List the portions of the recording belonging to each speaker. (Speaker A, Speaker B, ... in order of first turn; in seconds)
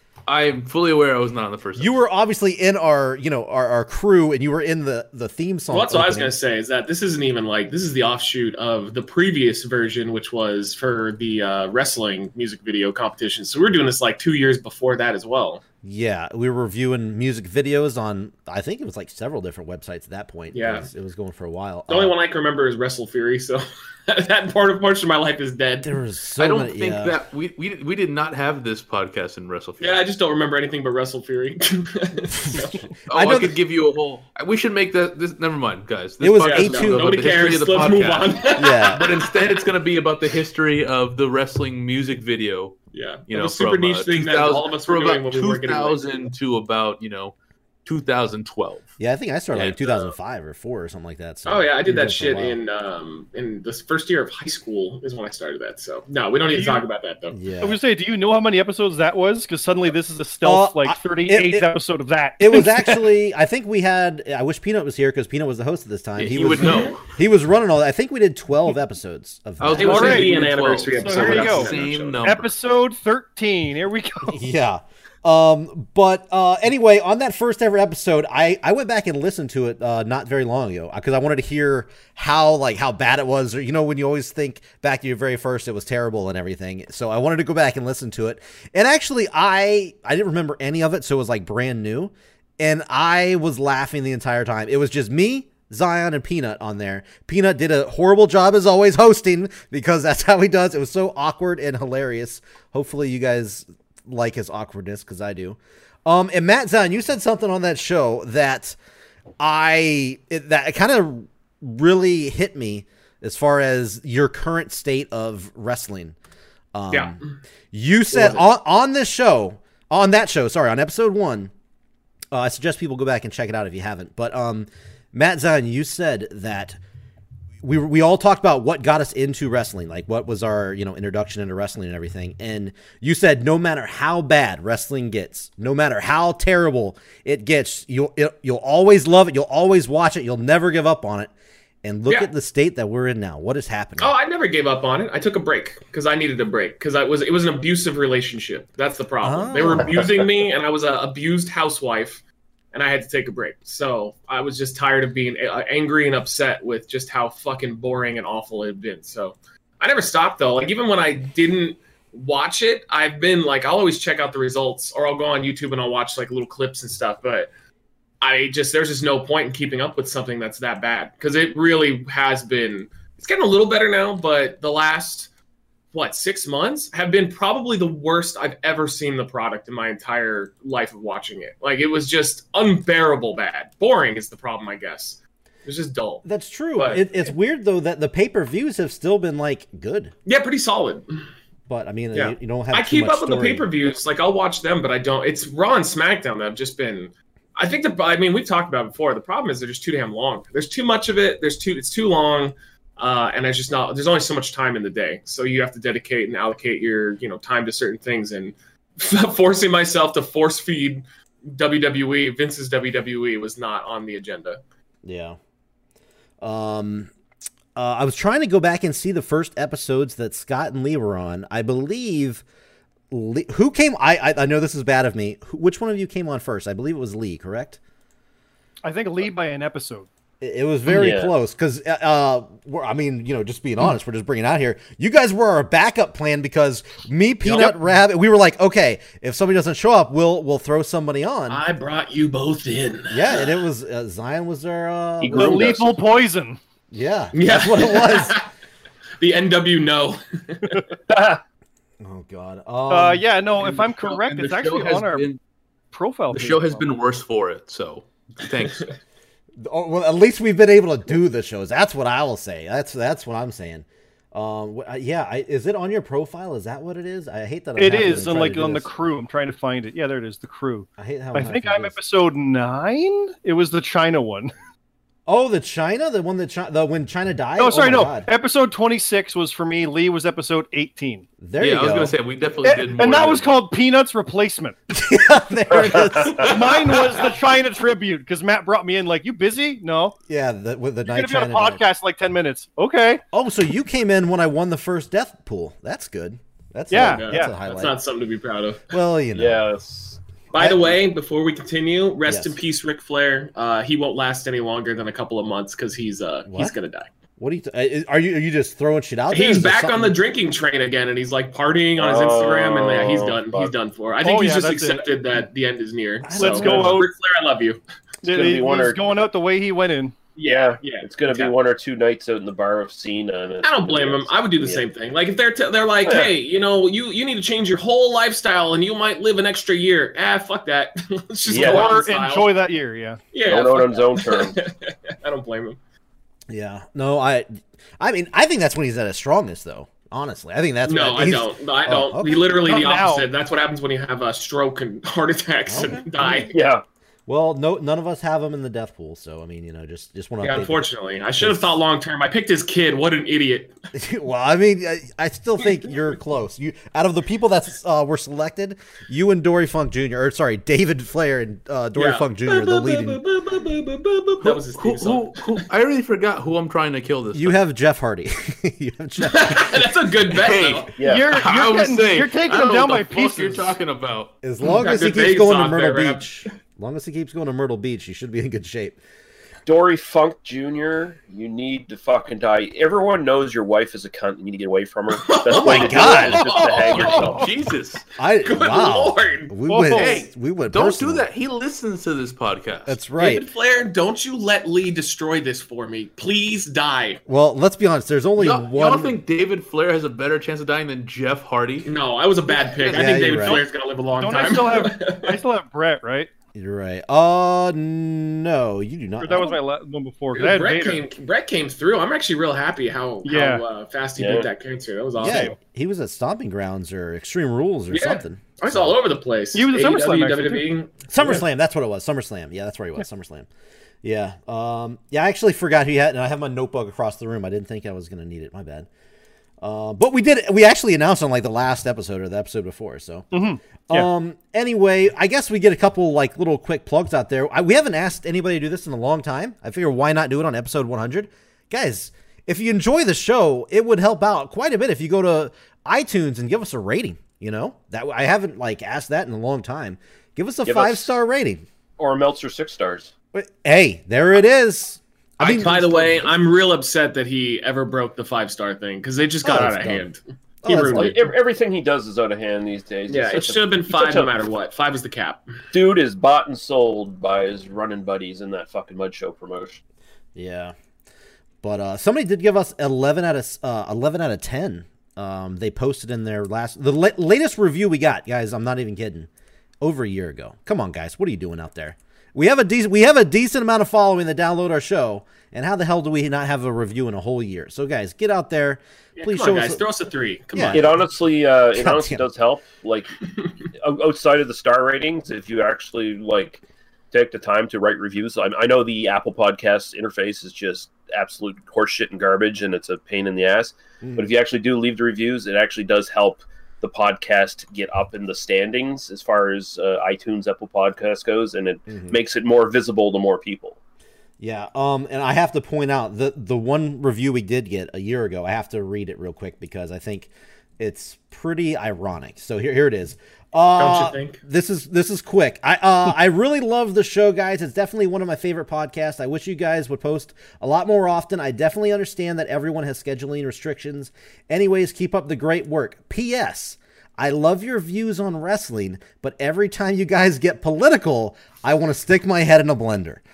Speaker A: 0.3-1.9, 26.4-30.0, 33.1-38.4, 39.0-48.9, 49.5-50.1, 66.2-67.1, 69.6-72.5, 253.6-255.4, 256.3-258.9, 281.6-283.6, 364.4-367.6, 370.3-374.3, 386.5-388.0, 389.9-393.0, 398.4-401.9, 455.4-456.1
Speaker B: 1.8-6.3, 15.8-22.2, 25.8-27.1, 32.4-33.6, 36.2-37.2, 38.6-39.0, 49.0-52.6, 57.3-57.8, 60.4-61.7, 62.4-70.3, 74.3-108.8, 109.4-116.2, 116.7-117.2, 117.7-121.5, 122.3-126.8, 127.6-141.3, 141.8-144.1, 149.2-150.1, 186.2-190.1, 191.7-193.7, 215.0-215.4, 216.4-217.1, 217.8-222.4, 223.1-227.8, 230.4-241.6, 243.1-245.7, 246.9-248.4, 252.0-253.2, 259.6-268.9, 271.0-272.0, 275.3-278.3, 281.4-282.1, 284.9-286.7, 290.3-291.8, 293.3-298.0, 298.9-299.6, 300.6-301.0, 302.2-302.6, 306.5-306.8, 307.4-310.2, 316.2-317.0, 336.5-342.5, 345.7-346.4, 347.3-350.9, 351.4-351.8, 353.9-363.2, 367.3-369.9, 374.4-379.0, 385.6-386.5, 388.2-391.3, 392.9-393.5, 397.3-399.2, 402.9-403.6, 406.6-409.6, 415.2-419.0, 421.1-423.5, 424.0-428.9, 429.6-433.3, 433.9-451.6, 453.3-456.1, 459.4-460.1, 460.6-461.2, 470.4-470.8, 471.6-479.3, 479.8-489.8, 490.5-490.9, 491.7-492.2, 504.0-504.3, 511.9-512.2, 514.4-543.2
Speaker C: 5.7-15.6, 20.5-20.9, 21.9-25.9, 29.8-32.9, 36.4-39.3, 42.9-46.0, 51.5-57.4, 66.6-67.0, 69.8-72.2, 116.9-117.2, 118.1-118.5, 144.0-152.2, 152.7-167.5, 168.2-175.3, 175.9-186.2, 186.8-187.3, 190.3-191.2, 192.1-214.6, 241.5-243.6, 247.3-248.5, 249.2-250.9, 297.0-298.8, 300.5-307.1, 309.3-317.8, 320.4-321.5, 323.6-332.6, 333.3-335.8, 340.9-346.5, 350.4-353.8, 362.0-365.5, 369.2-370.9, 374.7-376.3, 385.1-387.3, 388.4-389.6, 393.2-397.2, 401.9-405.4, 410.3-415.6, 417.9-421.4, 455.4-461.3, 463.1-465.4, 489.2-491.1, 523.8-524.4
Speaker D: 56.5-56.8, 57.6-63.1, 69.8-70.3, 71.0-71.7, 72.2-74.4, 228.8-230.1, 245.3-246.6, 252.9-255.3, 255.9-256.9, 267.8-274.5, 277.6-281.3, 282.6-284.8, 286.4-290.2, 291.1-293.2, 296.9-297.5, 314.2-315.1, 316.4-317.1, 318.2-320.1, 331.5-333.2, 342.5-343.3, 371.0-373.8, 389.7-390.2, 403.3-403.6, 404.2-406.3, 409.2-411.0, 413.2-413.6, 415.3-415.6, 419.5-420.7, 433.3-434.1
Speaker E: 230.9-231.3, 245.2-245.9, 251.1-251.4, 285.8-286.5, 299.3-300.2, 312.0-313.7, 316.6-317.1, 318.3-319.0, 320.4-324.9, 326.1-326.3, 331.5-332.0, 333.5-334.6, 346.5-346.8, 371.0-371.3, 379.7-387.5, 414.2-414.5, 450.6-451.2, 452.0-453.1, 460.8-464.3, 465.7-469.8, 490.7-493.1, 493.8-513.8